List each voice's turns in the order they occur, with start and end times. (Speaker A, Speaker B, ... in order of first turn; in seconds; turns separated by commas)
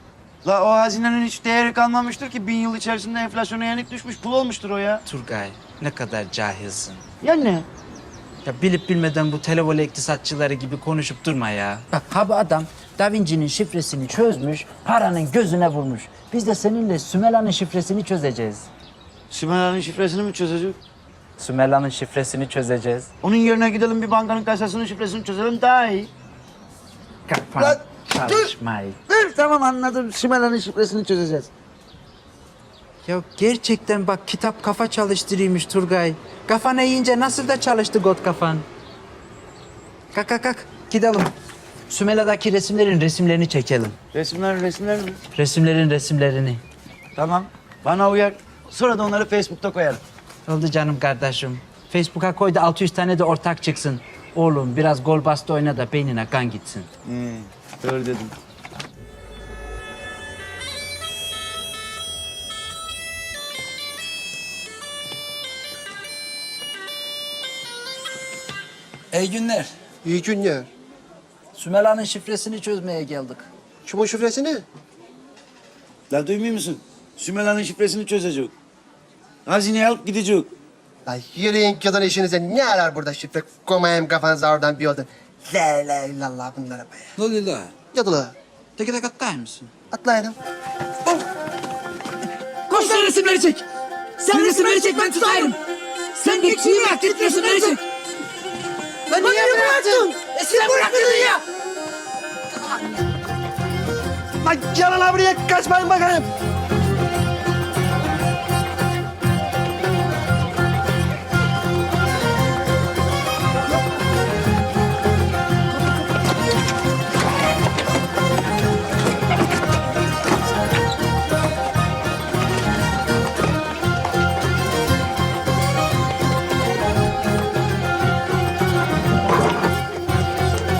Speaker A: 0.4-5.0, Speaker B: 5.0-7.0, Speaker A: 7.2-7.7, Speaker B: 8.4-18.7, Speaker A: 19.3-20.8, Speaker B: 21.4-23.1, Speaker A: 23.2-26.1, Speaker B: 27.3-29.0, Speaker A: 27.6-28.5, Speaker A: 29.1-31.5, Speaker B: 33.0-38.6, Speaker B: 40.1-41.3, Speaker B: 41.9-44.0, Speaker A: 44.1-45.2, Speaker B: 45.3-46.6, Speaker A: 47.1-50.0, Speaker B: 50.5-56.9, Speaker A: 57.1-58.3, Speaker B: 69.1-69.7, Speaker C: 70.0-70.7, Speaker B: 71.5-73.5, Speaker C: 73.8-74.6, Speaker A: 76.1-78.5, Speaker A: 79.5-80.5, Speaker C: 81.0-87.1, Speaker B: 87.2-87.7, Speaker C: 87.9-88.3, Speaker B: 88.8-89.7, Speaker C: 89.9-90.3, Speaker B: 92.7-93.6, Speaker B: 94.2-95.6, Speaker B: 96.2-97.8, Speaker C: 96.5-97.1, Speaker B: 99.1-101.4, Speaker C: 99.2-100.2, Speaker C: 100.7-101.1, Speaker C: 104.7-106.2